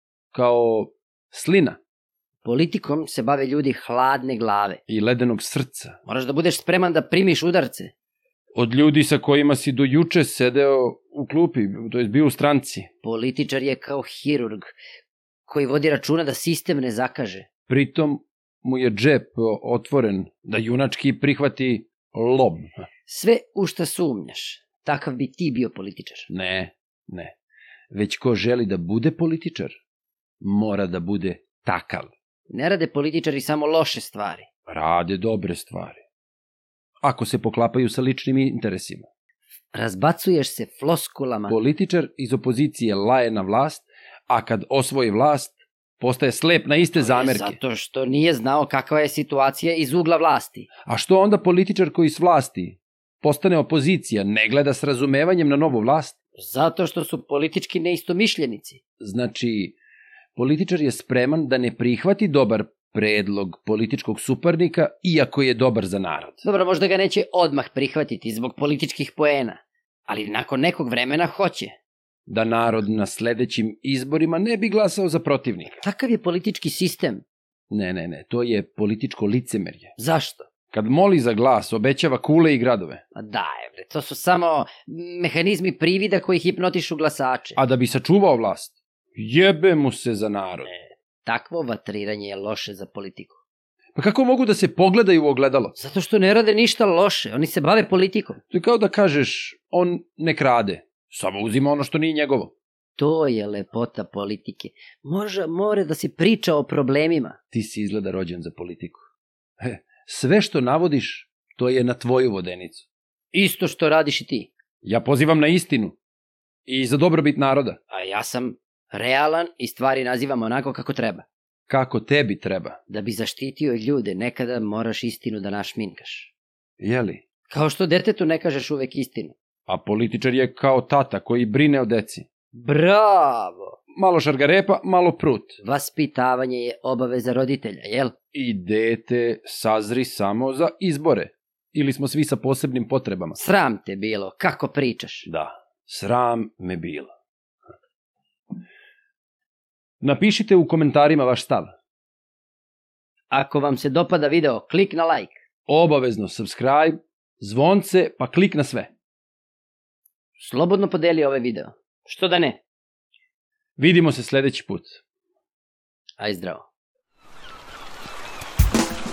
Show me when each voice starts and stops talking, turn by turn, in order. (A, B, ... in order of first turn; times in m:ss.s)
0:00.3-0:01.8 A
0:02.4-0:04.8 B
0:04.9-0:06.0 A
0:06.1-0:07.9 B
0:08.6-0:12.9 A
0:13.0-0:14.8 B
0:15.5-0:17.5 B
0:17.7-0:22.7 A
0:23.1-0:26.3 B
0:26.3-0:27.4 A
0:27.9-0:29.8 A
0:30.4-0:32.1 A
0:32.5-0:34.5 B
0:34.7-0:36.0 A
0:37.0-0:39.1 A
0:39.7-0:41.6 B
0:41.5-0:47.6 A
0:47.0-0:50.7 B
0:50.9-0:56.2 A
0:56.4-0:58.8 B
0:59.0-0:59.8 A
1:00.4-1:06.4 A
1:06.4-1:11.7 B
1:12.3-1:15.8 A
1:15.7-1:17.2 B
1:17.7-1:19.9 A
1:20.0-1:20.5 B
1:20.7-1:23.0 A
1:23.2-1:27.6 B
1:27.6-1:30.7 A
1:30.7-1:33.4 B
1:34.0-1:35.8 A
1:35.8-1:38.4 B
1:38.5-1:42.5 A
1:43.0-1:47.4 B
1:47.5-1:49.0 A
1:49.6-1:52.8 A
1:53.3-1:54.5 B
1:54.8-1:56.0 A
1:56.7-1:57.8 A
1:57.9-2:01.3 B
2:01.7-2:02.8 A
2:02.9-2:06.3 B
2:06.8-2:07.2 A
2:07.5-2:09.4 B
2:09.7-2:12.3 A
2:12.5-2:13.8 B
2:14.0-2:15.6 A
2:15.6-2:18.2 B
2:18.3-2:23.4 A
2:23.4-2:25.3 B
2:25.3-2:27.1 A
2:30.0-2:31.7 A
2:33.3-2:35.3 B
2:35.7-2:38.9 A
2:40.4-2:42.6 B
2:43.8-2:45.0 A
2:46.2-2:46.6 B